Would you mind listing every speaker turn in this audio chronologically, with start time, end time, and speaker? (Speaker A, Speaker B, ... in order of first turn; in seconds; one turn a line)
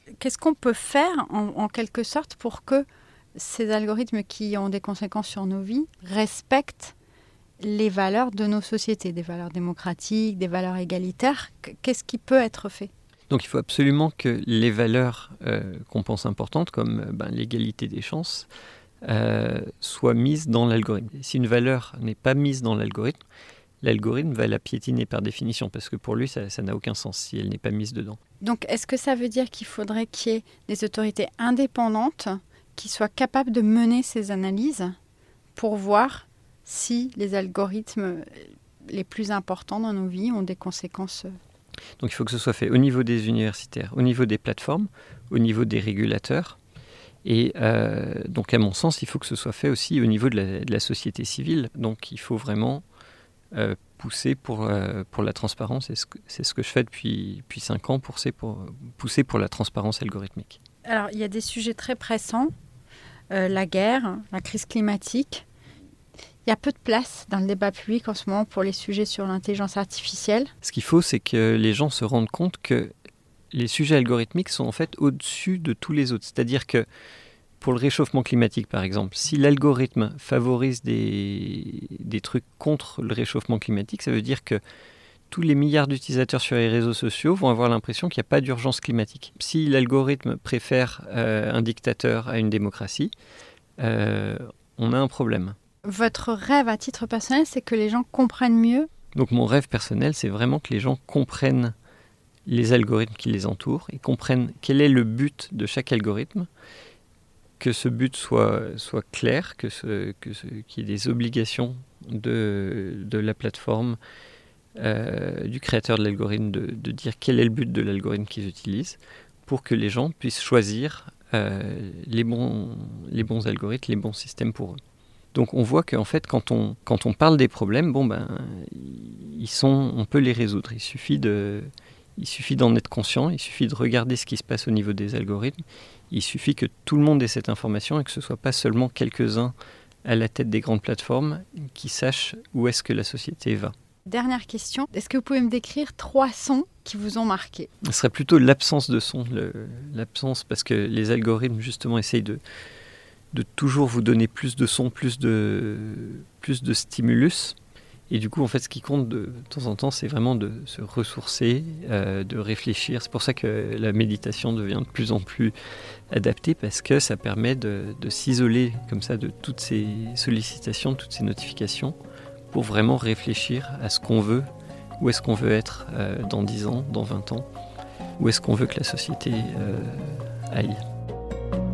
Speaker A: 0.2-7.0
Speaker A: 7.6-12.9
Speaker B: 13.3-18.5
Speaker B: 19.0-23.2
Speaker B: 23.8-28.2
Speaker A: 28.4-35.0
Speaker A: 35.6-41.4
Speaker B: 42.0-46.6
Speaker B: 47.2-52.8
Speaker B: 53.5-60.6
Speaker A: 60.9-62.5
Speaker A: 63.3-65.5
Speaker A: 66.5-70.5
Speaker B: 70.6-72.9
Speaker B: 73.5-76.9
Speaker B: 77.6-84.6
Speaker B: 85.3-93.1
Speaker B: 93.8-95.6
Speaker A: 95.8-98.9
Speaker B: 99.1-101.7
Speaker B: 102.5-106.5
Speaker B: 107.6-114.0
Speaker B: 114.8-124.8
Speaker B: 125.3-139.5
Speaker B: 140.1-143.7
Speaker A: 144.1-147.7
Speaker B: 147.8-152.4
Speaker B: 153.3-157.6
Speaker B: 158.1-165.5
Speaker B: 166.1-172.0
Speaker B: 172.5-177.5
Speaker B: 178.2-180.8